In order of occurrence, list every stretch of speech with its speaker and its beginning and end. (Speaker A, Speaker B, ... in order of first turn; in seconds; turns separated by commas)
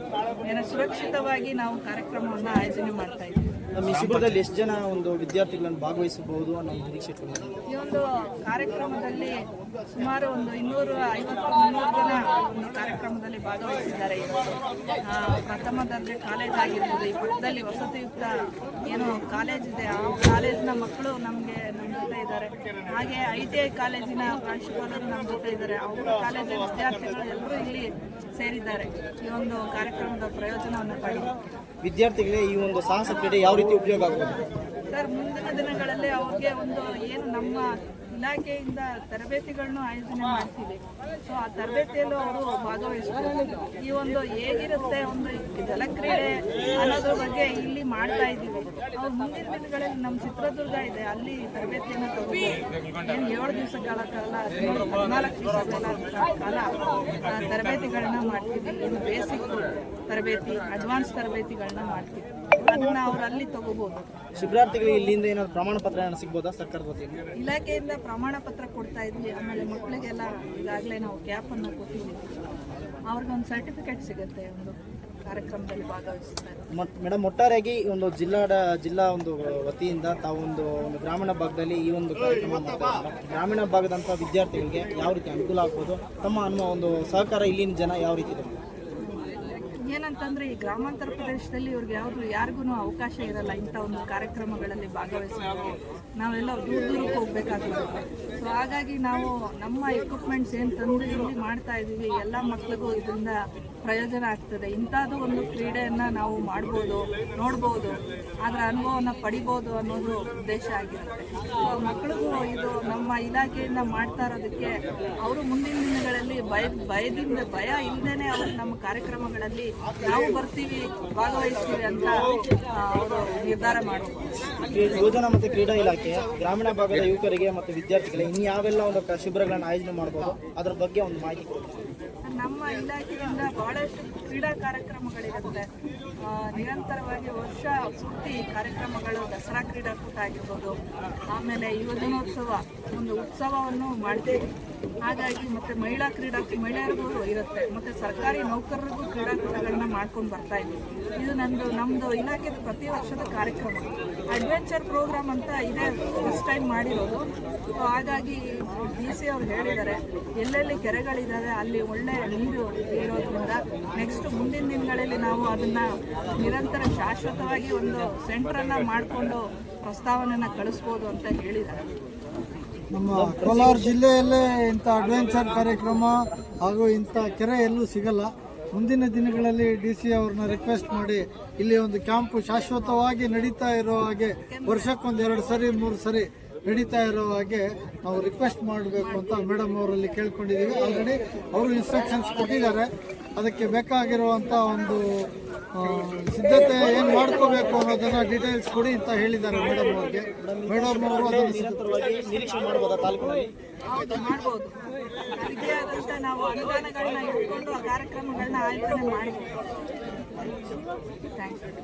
Speaker A: 0.4-3.4, Speaker B: 3.7-7.5, Speaker A: 7.7-9.4, Speaker A: 9.9-18.3, Speaker A: 18.8-31.4, Speaker B: 31.8-34.4, Speaker A: 34.9-64.1, Speaker B: 64.4-67.2, Speaker A: 67.3-72.3, Speaker A: 73.1-76.7, Speaker B: 76.7-88.5, Speaker A: 89.0-114.7, Speaker A: 115.2-124.2, Speaker B: 124.7-131.8, Speaker A: 132.2-135.7, Speaker A: 136.2-140.8, Speaker A: 141.3-144.4, Speaker A: 145.0-171.8, Speaker C: 172.9-201.8, Speaker B: 173.1-173.9, Speaker A: 184.5-184.9, Speaker A: 189.0-189.4, Speaker B: 200.4-203.5, Speaker A: 203.9-204.8, Speaker A: 205.4-209.5, Speaker A: 211.2-211.7